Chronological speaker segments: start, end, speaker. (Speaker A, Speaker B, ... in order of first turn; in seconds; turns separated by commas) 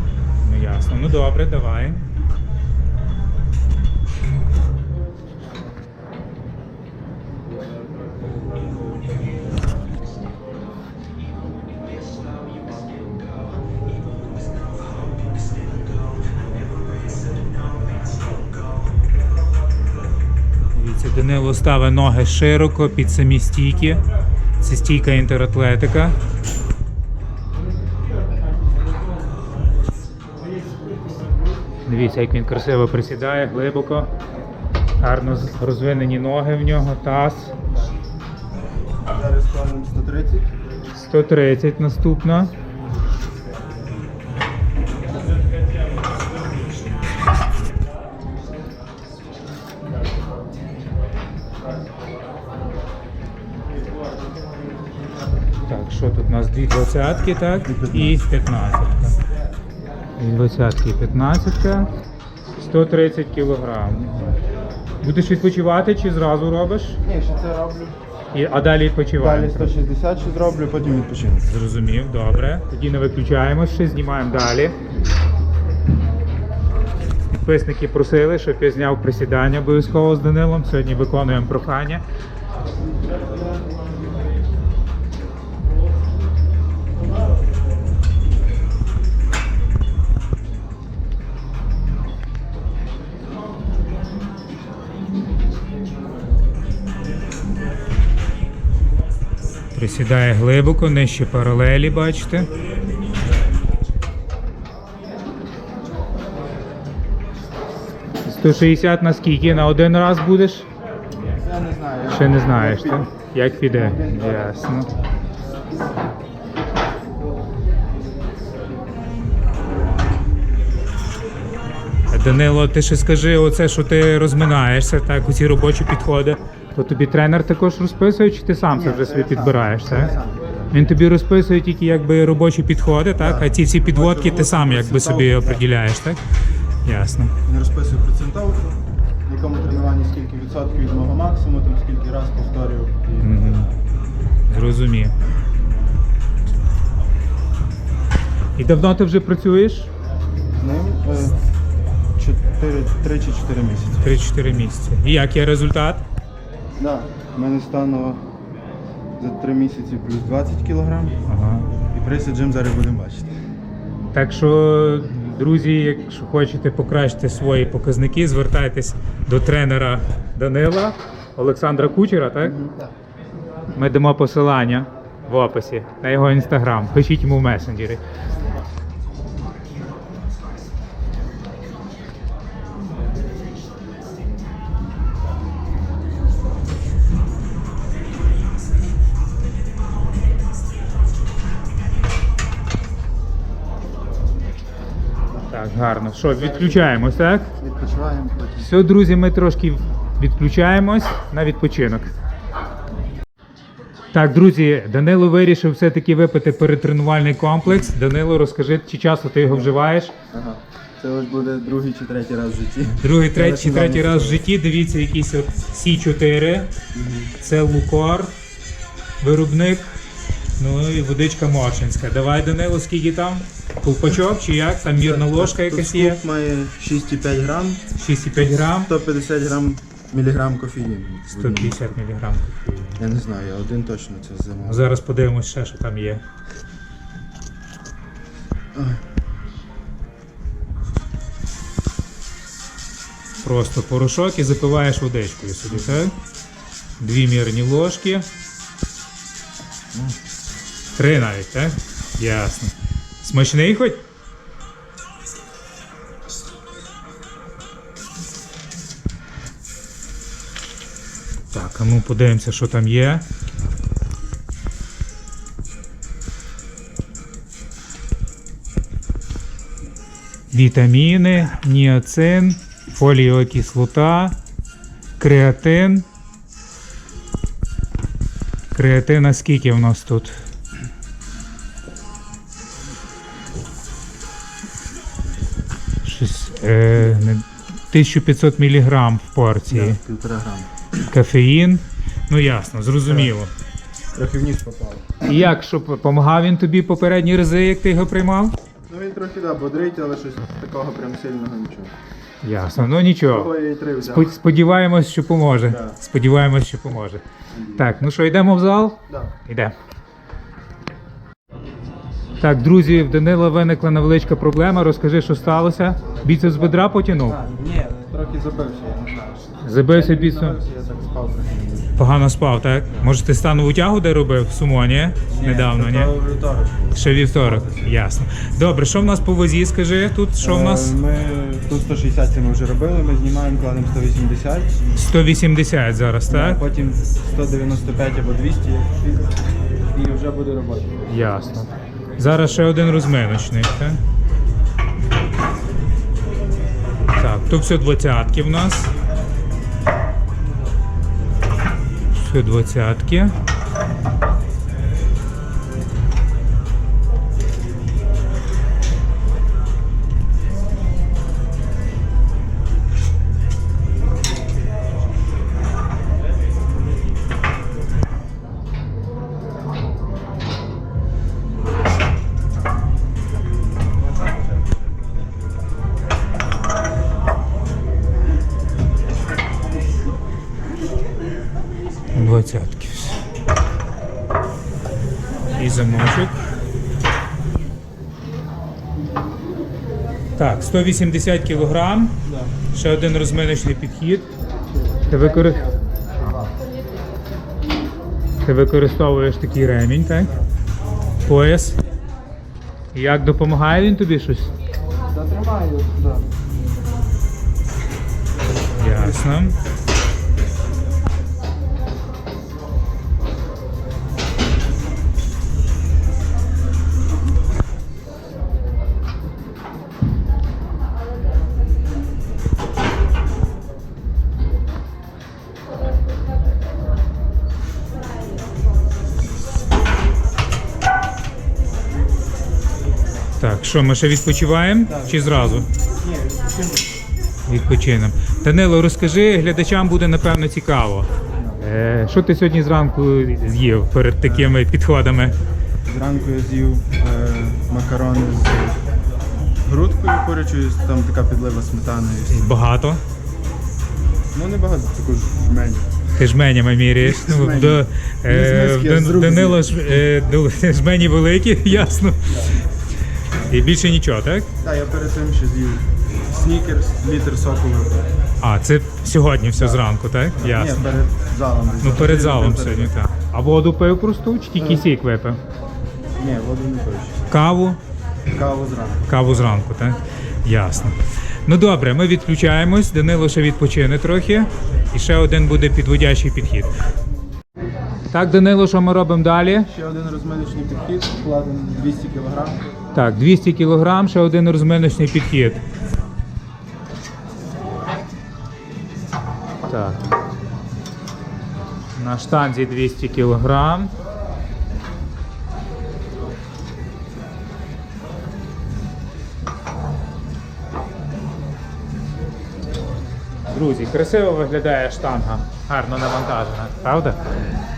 Speaker A: 0.4-2.0, Speaker A: 20.7-24.0, Speaker A: 24.6-26.2, Speaker A: 31.9-34.1, Speaker A: 35.0-37.5, Speaker B: 39.1-40.5, Speaker A: 41.0-42.5, Speaker A: 55.7-59.2, Speaker B: 57.7-58.2, Speaker A: 60.2-61.9, Speaker A: 62.6-64.4, Speaker A: 65.0-67.0, Speaker B: 67.0-68.0, Speaker A: 68.3-69.7, Speaker B: 69.1-71.5, Speaker A: 71.5-74.8, Speaker A: 77.3-82.0, Speaker A: 99.8-102.5, Speaker A: 108.2-110.7, Speaker B: 111.4-114.7, Speaker A: 112.1-114.9, Speaker A: 122.1-130.2, Speaker B: 128.7-130.7, Speaker A: 130.7-136.2, Speaker B: 133.2-135.6, Speaker A: 136.8-137.3, Speaker B: 137.4-143.4, Speaker A: 143.2-143.7, Speaker A: 144.5-145.1, Speaker A: 148.6-149.9, Speaker B: 150.6-151.4, Speaker B: 152.2-154.1, Speaker A: 154.0-156.0, Speaker B: 156.8-158.2, Speaker B: 159.2-161.2, Speaker A: 161.3-161.7, Speaker B: 161.9-163.3, Speaker A: 164.1-172.6, Speaker B: 172.4-172.9, Speaker A: 173.8-178.0, Speaker A: 195.5-197.5, Speaker B: 196.3-196.9, Speaker B: 197.6-198.7, Speaker A: 198.6-202.1, Speaker A: 204.1-210.1, Speaker B: 207.7-207.9, Speaker B: 210.3-214.4, Speaker A: 212.9-216.7, Speaker B: 216.9-217.3, Speaker A: 217.4-218.3, Speaker A: 219.2-219.9, Speaker A: 220.6-226.2, Speaker B: 224.9-227.9, Speaker A: 227.9-228.9, Speaker B: 228.7-231.8, Speaker A: 231.3-233.0, Speaker B: 233.0-234.9, Speaker A: 234.7-236.2, Speaker B: 238.7-239.0, Speaker A: 243.4-246.2, Speaker B: 245.7-246.0, Speaker A: 247.0-248.3, Speaker A: 250.9-254.0, Speaker A: 261.5-263.2, Speaker A: 270.5-274.4, Speaker A: 275.2-276.1, Speaker A: 278.7-280.4, Speaker A: 286.0-290.0, Speaker B: 286.9-287.3, Speaker B: 289.7-290.7, Speaker A: 291.1-293.5, Speaker B: 293.1-293.3, Speaker B: 294.1-295.1, Speaker A: 295.2-298.6, Speaker B: 298.9-301.9, Speaker A: 302.4-303.5, Speaker B: 303.3-304.3, Speaker A: 304.0-307.2, Speaker B: 305.7-306.0, Speaker B: 307.5-307.9, Speaker A: 307.8-309.7, Speaker A: 312.4-317.4, Speaker B: 316.2-321.9, Speaker A: 319.6-320.6, Speaker A: 322.0-326.1, Speaker B: 325.3-327.9, Speaker A: 326.9-331.0, Speaker B: 330.4-334.8, Speaker A: 334.9-336.6, Speaker B: 336.3-339.3, Speaker B: 339.9-341.2, Speaker A: 341.1-344.0, Speaker A: 347.2-348.9, Speaker A: 352.1-353.3, Speaker A: 382.1-383.2, Speaker A: 385.6-386.4, Speaker A: 390.4-392.2, Speaker B: 392.2-392.5, Speaker A: 392.7-394.3, Speaker B: 394.6-396.5, Speaker A: 395.1-395.6, Speaker A: 396.2-396.4, Speaker A: 398.4-400.3, Speaker A: 401.3-401.8, Speaker A: 402.9-404.5, Speaker B: 405.1-406.3, Speaker A: 408.8-409.6, Speaker B: 408.9-409.2, Speaker A: 433.4-435.7, Speaker B: 434.8-437.0, Speaker A: 437.5-441.1, Speaker B: 441.3-441.6, Speaker A: 441.6-445.3, Speaker B: 444.2-444.6, Speaker B: 445.8-448.8, Speaker B: 449.6-452.6, Speaker A: 452.3-453.0, Speaker B: 454.3-455.9, Speaker A: 456.2-462.5, Speaker B: 457.0-460.0, Speaker A: 463.5-464.5, Speaker B: 464.6-468.1, Speaker A: 468.4-470.9, Speaker B: 469.5-469.8, Speaker B: 470.4-472.9, Speaker A: 471.8-475.4, Speaker B: 474.6-474.9, Speaker B: 476.2-477.3, Speaker A: 477.3-477.8, Speaker B: 478.3-479.1, Speaker A: 479.1-486.7, Speaker A: 488.1-489.7, Speaker B: 489.6-492.6, Speaker A: 492.9-495.6, Speaker A: 499.7-500.0, Speaker A: 501.9-503.9, Speaker A: 513.5-517.4